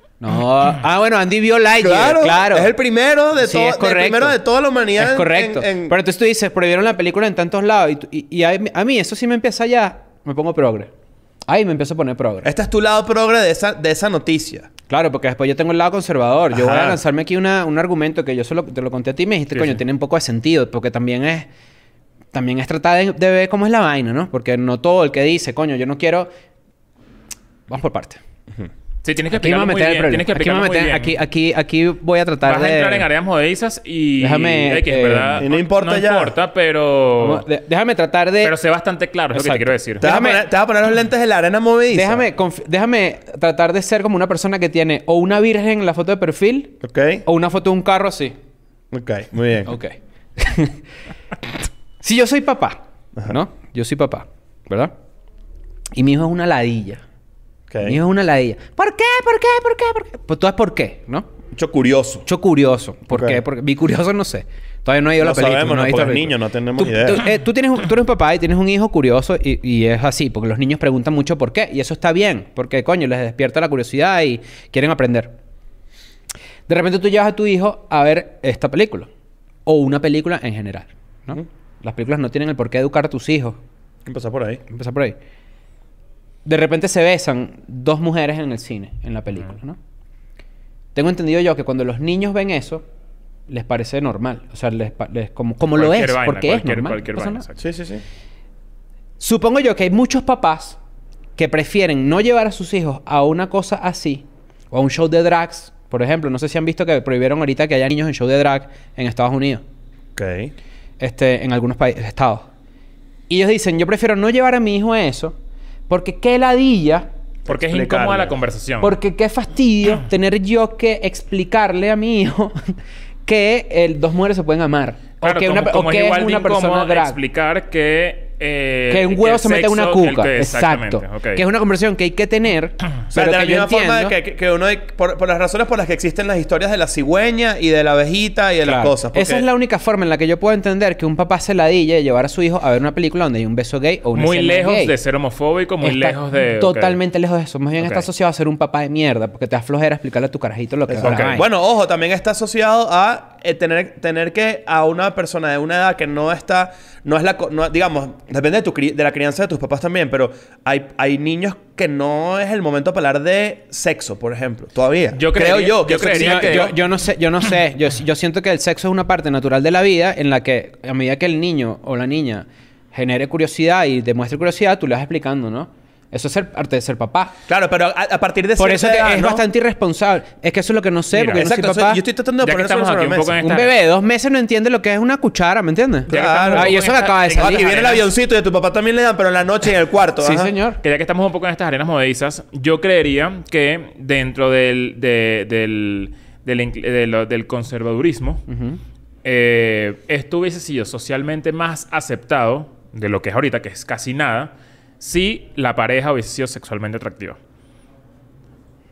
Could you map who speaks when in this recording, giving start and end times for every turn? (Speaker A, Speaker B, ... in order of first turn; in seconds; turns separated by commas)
Speaker A: 0.2-2.7, Speaker B: 1.8-5.9, Speaker A: 3.4-4.4, Speaker A: 5.0-10.9, Speaker A: 11.5-12.5, Speaker B: 12.4-14.7, Speaker A: 14.9-21.5, Speaker B: 16.5-17.0, Speaker A: 22.3-26.3, Speaker A: 27.7-28.2, Speaker C: 29.0-31.1, Speaker A: 29.3-33.1, Speaker C: 32.4-37.4, Speaker A: 34.2-35.4, Speaker B: 35.4-36.4, Speaker A: 37.2-38.5, Speaker C: 38.4-40.1, Speaker A: 39.3-40.4, Speaker B: 40.0-42.2, Speaker A: 41.9-48.3, Speaker B: 46.8-47.2, Speaker B: 48.9-49.7, Speaker A: 49.6-50.8, Speaker A: 52.0-54.9, Speaker A: 55.9-57.0, Speaker B: 57.7-58.0, Speaker A: 57.8-61.3, Speaker B: 61.5-62.3, Speaker A: 62.2-75.3, Speaker B: 63.1-63.4, Speaker B: 65.2-67.2, Speaker A: 76.7-79.1, Speaker A: 79.7-83.6, Speaker B: 84.0-84.6, Speaker A: 84.7-85.2, Speaker A: 86.4-89.8, Speaker A: 90.9-92.8, Speaker A: 93.5-97.4, Speaker C: 95.7-97.6, Speaker B: 97.6-98.0, Speaker A: 99.2-100.8, Speaker A: 101.4-109.6, Speaker B: 110.2-110.5, Speaker A: 111.0-112.5, Speaker A: 113.3-115.3, Speaker A: 115.9-117.1, Speaker B: 117.5-118.3, Speaker C: 117.5-118.9, Speaker A: 118.8-122.7, Speaker A: 123.2-127.2, Speaker C: 125.2-131.4, Speaker A: 128.9-134.1, Speaker B: 133.1-139.4, Speaker A: 138.6-144.9, Speaker C: 144.1-147.0, Speaker A: 145.8-151.4, Speaker C: 147.8-148.1, Speaker B: 150.9-166.7, Speaker C: 151.0-151.4, Speaker C: 165.1-166.7, Speaker A: 166.1-177.3, Speaker B: 177.5-179.4, Speaker A: 178.6-182.0, Speaker C: 181.1-181.4, Speaker B: 181.3-183.4, Speaker C: 182.4-183.7, Speaker A: 183.4-187.7, Speaker B: 186.1-186.8, Speaker C: 186.1-188.1, Speaker B: 187.3-190.5, Speaker A: 190.2-190.8, Speaker C: 190.8-198.4, Speaker A: 198.5-198.8, Speaker C: 199.2-207.4